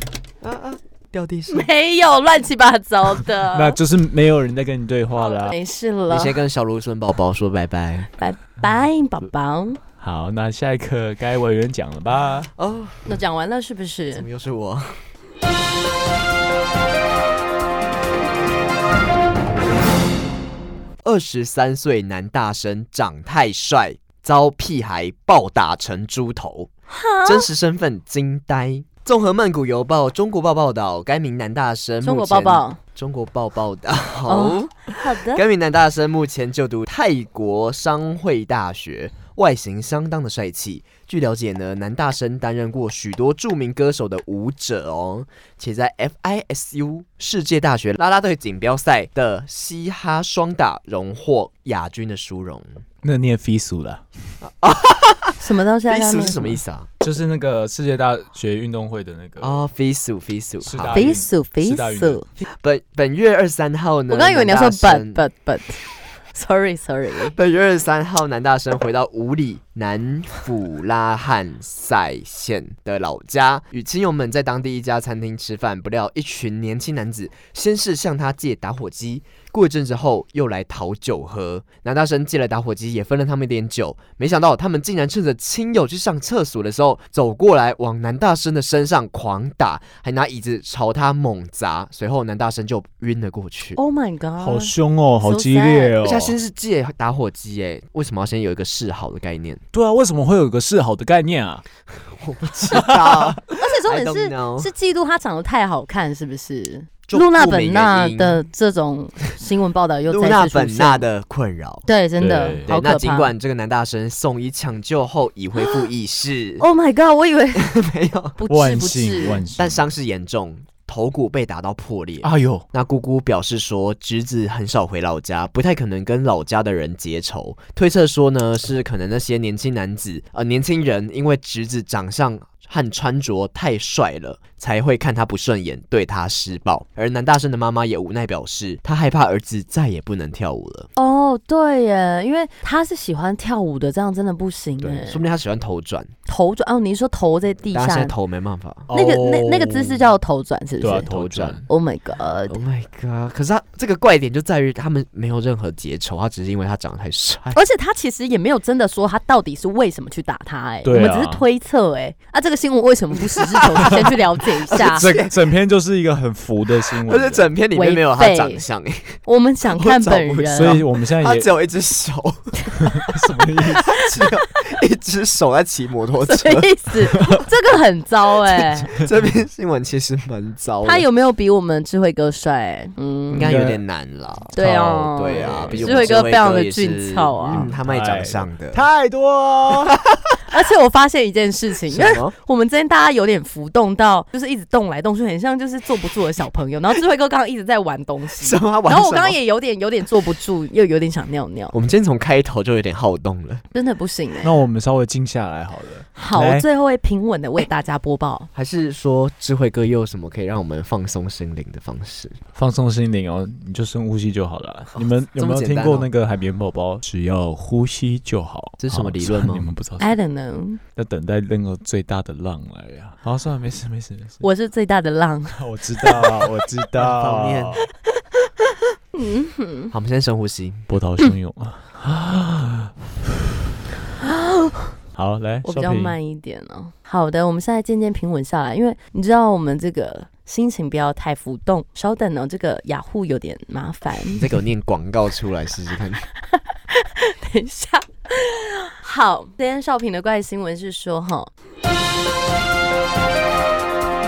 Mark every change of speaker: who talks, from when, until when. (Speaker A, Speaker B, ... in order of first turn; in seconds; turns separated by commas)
Speaker A: 0.4-1.7, Speaker B: 1.5-3.8, Speaker C: 3.5-5.5, Speaker B: 5.2-6.4, Speaker A: 6.1-8.1, Speaker B: 8.2-9.8, Speaker C: 10.0-12.5, Speaker A: 12.6-13.2, Speaker B: 13.1-14.2, Speaker A: 14.1-15.0, Speaker A: 21.0-26.7, Speaker B: 26.9-27.5, Speaker A: 27.2-52.8, Speaker B: 32.0-32.8, Speaker B: 34.3-35.4, Speaker C: 53.0-54.0, Speaker A: 54.4-56.9, Speaker B: 55.4-56.6, Speaker C: 57.0-59.6, Speaker A: 59.4-61.1, Speaker C: 60.6-62.2, Speaker B: 60.9-62.2, Speaker A: 62.5-65.2, Speaker B: 64.1-65.8, Speaker B: 66.3-67.4, Speaker A: 67.3-93.8, Speaker B: 93.8-96.0, Speaker C: 94.4-96.3, Speaker A: 96.0-99.6, Speaker C: 99.7-101.6, Speaker A: 102.1-104.7, Speaker C: 102.7-103.3, Speaker B: 103.5-111.0, Speaker A: 107.1-108.4, Speaker A: 110.1-111.9, Speaker B: 111.9-113.3, Speaker C: 112.2-112.7, Speaker A: 112.7-116.6, Speaker B: 116.6-117.8, Speaker A: 117.5-118.4, Speaker B: 118.4-119.5, Speaker C: 118.5-119.9, Speaker A: 119.5-140.9, Speaker C: 122.2-122.6, Speaker B: 141.0-145.2, Speaker A: 144.9-146.1, Speaker B: 146.2-148.1, Speaker A: 147.7-148.9, Speaker C: 148.9-150.0, Speaker B: 148.9-151.1, Speaker C: 150.8-151.6, Speaker A: 151.1-151.6, Speaker B: 151.7-152.6, Speaker A: 152.5-157.6, Speaker B: 157.5-165.1, Speaker C: 160.8-161.4, Speaker A: 163.6-163.9, Speaker A: 164.7-165.4, Speaker C: 164.8-167.5, Speaker A: 166.9-169.2, Speaker B: 167.8-168.6, Speaker B: 169.2-170.8, Speaker A: 169.7-173.1, Speaker C: 170.5-171.5, Speaker C: 172.8-173.9, Speaker A: 173.8-176.7, Speaker B: 176.2-178.9, Speaker A: 179.0-181.1, Speaker B: 180.8-183.5, Speaker A: 183.3-184.5, Speaker C: 183.3-183.8, Speaker C: 184.5-186.2, Speaker B: 184.5-187.7, Speaker A: 185.1-188.8, Speaker C: 187.5-190.0, Speaker B: 190.5-201.8, Speaker A: 191.9-192.3, Speaker A: 198.4-199.4, Speaker A: 201.7-203.6, Speaker B: 203.7-204.6, Speaker C: 204.4-206.6, Speaker B: 206.2-208.5, Speaker A: 208.5-212.4, Speaker C: 212.6-220.1, Speaker A: 215.0-216.1, Speaker A: 218.8-219.7, Speaker B: 220.0-220.8, Speaker C: 221.0-224.4, Speaker B: 224.4-226.3, Speaker C: 225.5-227.9, Speaker A: 227.0-227.8, Speaker B: 229.1-229.9, Speaker A: 229.9-230.9, Speaker C: 230.9-233.5, Speaker B: 234.2-234.9, Speaker C: 235.2-236.2, Speaker B: 235.6-244.4, Speaker A: 244.3-246.2, Speaker B: 246.5-251.5